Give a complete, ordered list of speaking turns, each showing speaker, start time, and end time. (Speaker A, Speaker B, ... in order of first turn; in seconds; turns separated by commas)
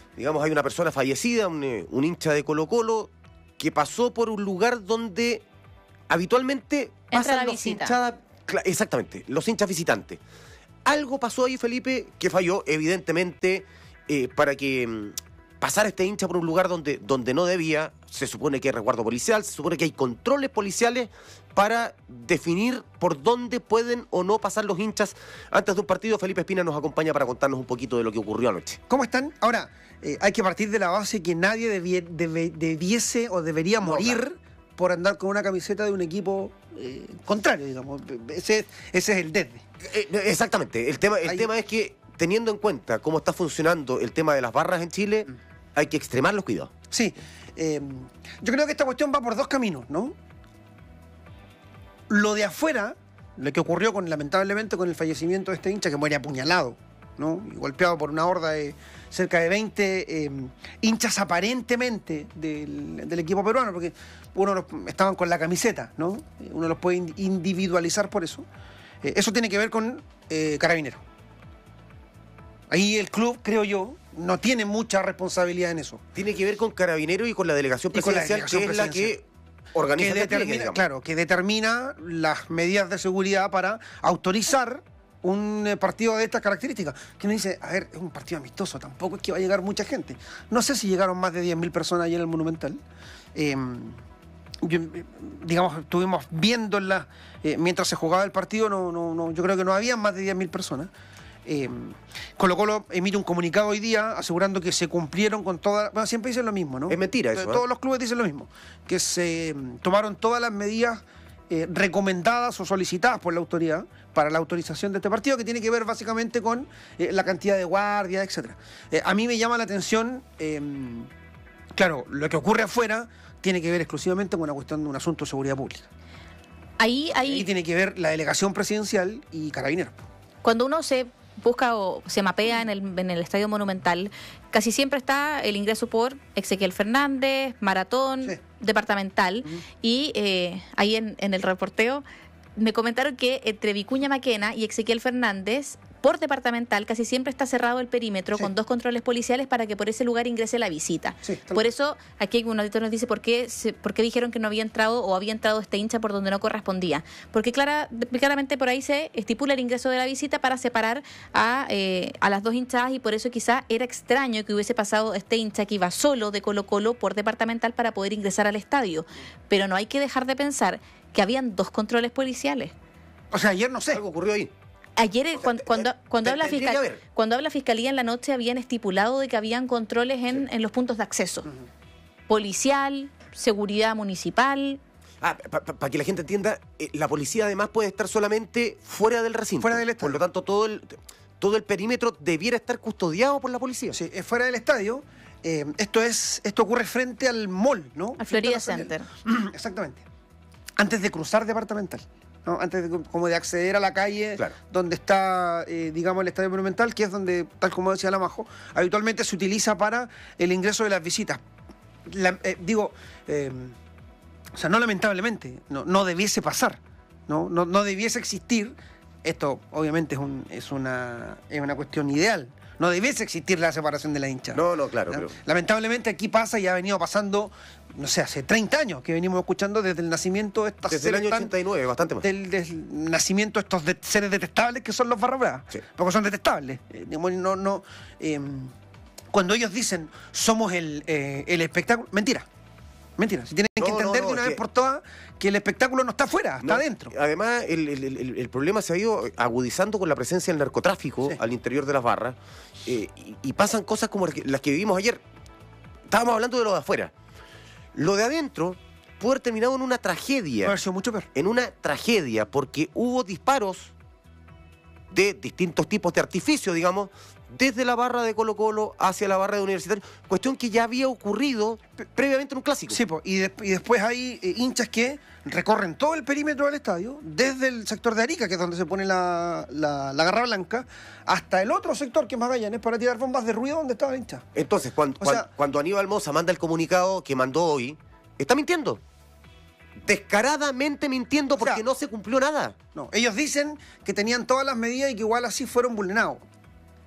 Speaker A: 0.2-5.4, Speaker A: 6.1-10.2, Speaker B: 7.1-8.0, Speaker A: 10.9-28.8, Speaker C: 28.9-39.6, Speaker A: 33.8-34.2, Speaker A: 39.9-46.7, Speaker C: 41.2-41.5, Speaker C: 46.9-50.1, Speaker C: 52.1-68.5, Speaker C: 69.0-71.0, Speaker C: 72.7-76.0, Speaker A: 76.1-80.8, Speaker C: 77.9-79.2, Speaker C: 80.0-92.8, Speaker C: 93.3-94.0, Speaker C: 94.6-100.9, Speaker C: 101.5-121.1, Speaker A: 106.9-107.6, Speaker C: 121.7-125.9, Speaker B: 126.8-127.5, Speaker C: 127.3-130.0, Speaker B: 130.4-142.0, Speaker B: 142.6-172.7, Speaker C: 151.2-151.7, Speaker C: 173.3-174.0, Speaker A: 173.9-174.5, Speaker B: 175.0-181.5, Speaker A: 175.4-177.0, Speaker B: 182.3-184.8, Speaker A: 185.2-194.0, Speaker C: 189.6-190.2, Speaker C: 193.9-200.0, Speaker B: 198.2-199.1, Speaker C: 200.8-211.4, Speaker C: 212.1-213.7, Speaker C: 214.6-231.5, Speaker A: 224.5-225.3, Speaker A: 230.9-232.3, Speaker C: 232.2-238.7, Speaker C: 239.3-242.4, Speaker C: 243.2-247.1, Speaker A: 243.8-244.6, Speaker A: 246.6-255.2, Speaker A: 256.1-257.1, Speaker A: 257.9-260.8, Speaker C: 260.6-261.3, Speaker A: 261.3-263.9, Speaker A: 265.1-273.0, Speaker C: 272.9-284.4, Speaker A: 284.6-289.0, Speaker C: 285.2-285.5, Speaker A: 290.1-292.8, Speaker C: 291.6-291.8, Speaker C: 292.9-296.4